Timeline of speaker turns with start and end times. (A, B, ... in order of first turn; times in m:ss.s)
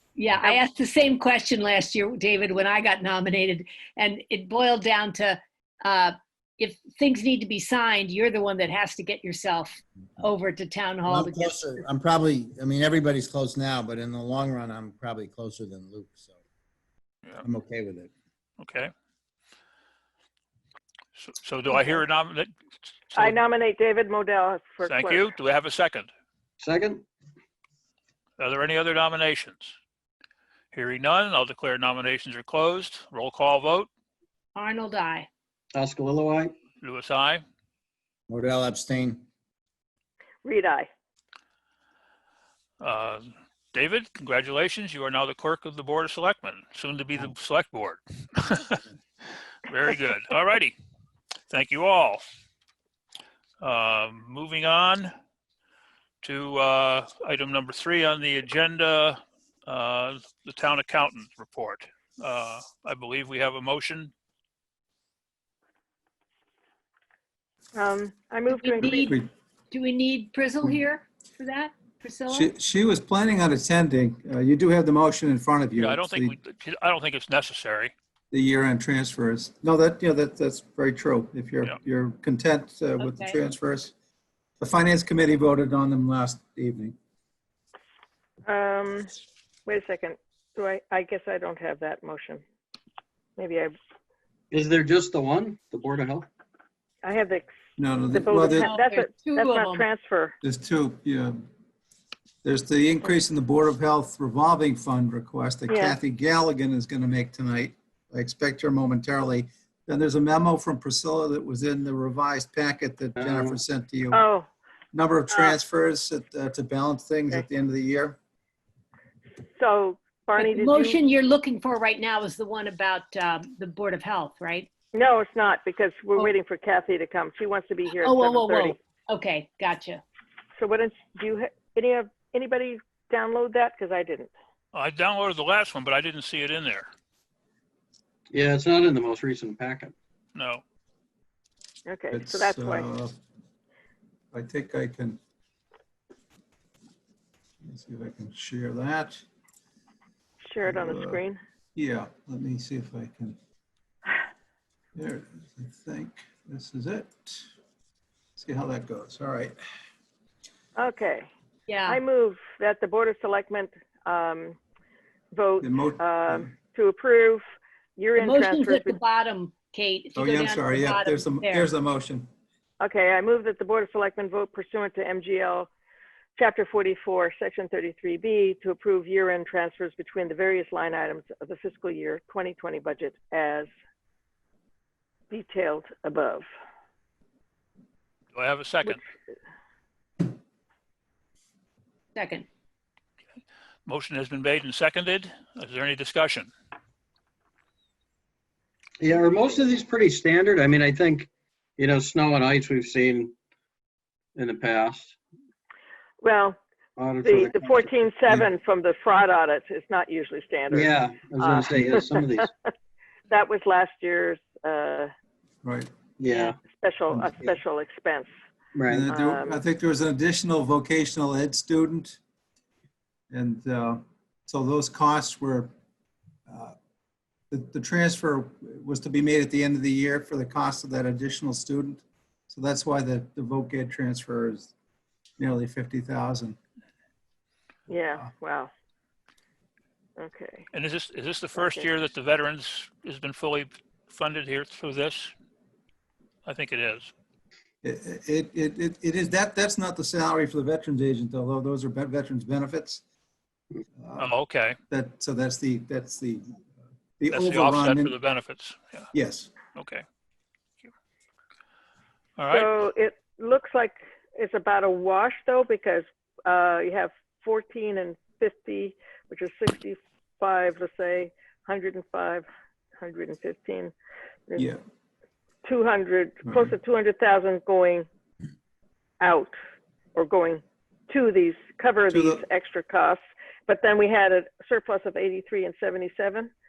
0:00.2-0:11.8 A
0:11.1-0:16.3 B
0:17.4-0:18.1 B
0:18.6-0:18.9 C
0:21.1-0:22.5 C
0:21.7-0:22.0 D
0:23.1-0:23.4 C
0:23.1-0:25.3 D
0:24.8-0:26.1 C
0:26.6-0:27.0 E
0:28.4-0:29.8 C
0:30.7-0:33.9 C
0:34.5-0:35.3 A
0:35.7-0:36.5 E
0:36.8-0:37.4 C
0:38.3-0:39.2 B
0:40.4-0:40.9 D
0:42.8-0:48.8 C
0:49.6-0:50.7 C
0:51.5-0:52.3 C
0:53.6-0:55.1 C
0:56.2-1:04.1 C
1:07.7-1:09.1 D
1:08.5-1:12.5 A
1:08.8-1:09.3 F
1:12.3-1:16.4 F
1:15.8-1:17.9 C
1:18.3-1:23.9 F
1:23.0-1:23.4 A
1:24.6-1:27.0 F
1:28.4-1:29.1 D
1:29.6-1:32.4 D
1:33.4-1:33.8 D
1:34.5-1:36.3 E
1:37.0-1:37.5 D
1:37.8-1:38.7 F
1:38.1-1:40.4 D
1:38.5-1:39.9 A
1:40.4-1:41.4 F
1:42.4-1:54.2 F
1:45.7-1:46.0 D
1:53.2-1:53.6 E
1:54.1-1:54.5 D
1:54.9-1:58.2 F
1:55.3-1:55.6 D
1:59.6-2:01.0 D
2:00.4-2:04.7 A
2:04.9-2:08.8 D
2:07.9-2:10.0 A
2:10.6-2:14.3 D
2:14.7-2:16.9 C
2:18.3-2:19.9 E
2:20.3-2:20.6 C
2:21.8-2:22.9 D
2:22.1-2:23.1 F
2:24.3-2:25.2 F
2:27.6-2:29.2 F
2:30.4-2:31.4 D
2:30.6-2:31.2 F
2:31.7-2:33.4 F
2:34.9-2:37.5 F
2:38.4-2:39.6 F
2:40.7-2:41.3 D
2:41.7-2:42.0 A
2:41.8-2:44.6 D
2:45.3-2:47.4 D
2:45.6-2:46.6 F
2:48.0-2:49.0 D
2:48.2-2:51.7 A
2:50.1-2:52.3 F
2:52.8-2:55.7 D
2:56.4-3:03.7 D
3:05.3-3:06.5 D
3:08.3-3:09.0 C
3:12.1-3:12.4 A
3:13.8-3:16.5 C
3:19.0-3:23.3 E
3:24.4-3:25.2 E
3:26.2-3:26.6 D
3:27.0-3:27.9 E
3:27.2-3:32.7 D
3:30.7-3:32.5 E
3:33.3-3:35.1 D
3:35.6-3:35.9 F
3:36.2-3:36.6 E
3:36.6-3:38.3 D
3:37.1-3:37.6 F
3:38.7-3:39.0 E
3:38.9-3:42.2 F
3:39.1-3:39.6 D
3:43.3-3:45.7 F
3:46.5-3:46.8 F
3:47.5-3:54.7 F
3:55.4-3:56.6 F
3:57.9-3:58.7 D
4:00.2-4:00.7 D
4:00.7-4:05.3 C
4:01.5-4:01.9 D
4:06.4-4:07.1 C
4:07.8-4:13.0 F
4:14.0-4:14.3 F
4:14.2-4:14.8 C
4:14.9-4:16.6 F
4:17.2-4:18.2 F
4:17.3-4:19.1 C
4:19.1-4:19.5 F
4:19.7-4:20.0 C
4:22.4-4:22.7 C
4:22.5-4:32.5 D
4:33.0-4:33.9 D
4:35.6-4:38.1 D
4:36.4-4:36.7 F
4:39.2-4:39.5 D
4:40.1-4:46.5 D
4:42.1-4:42.4 F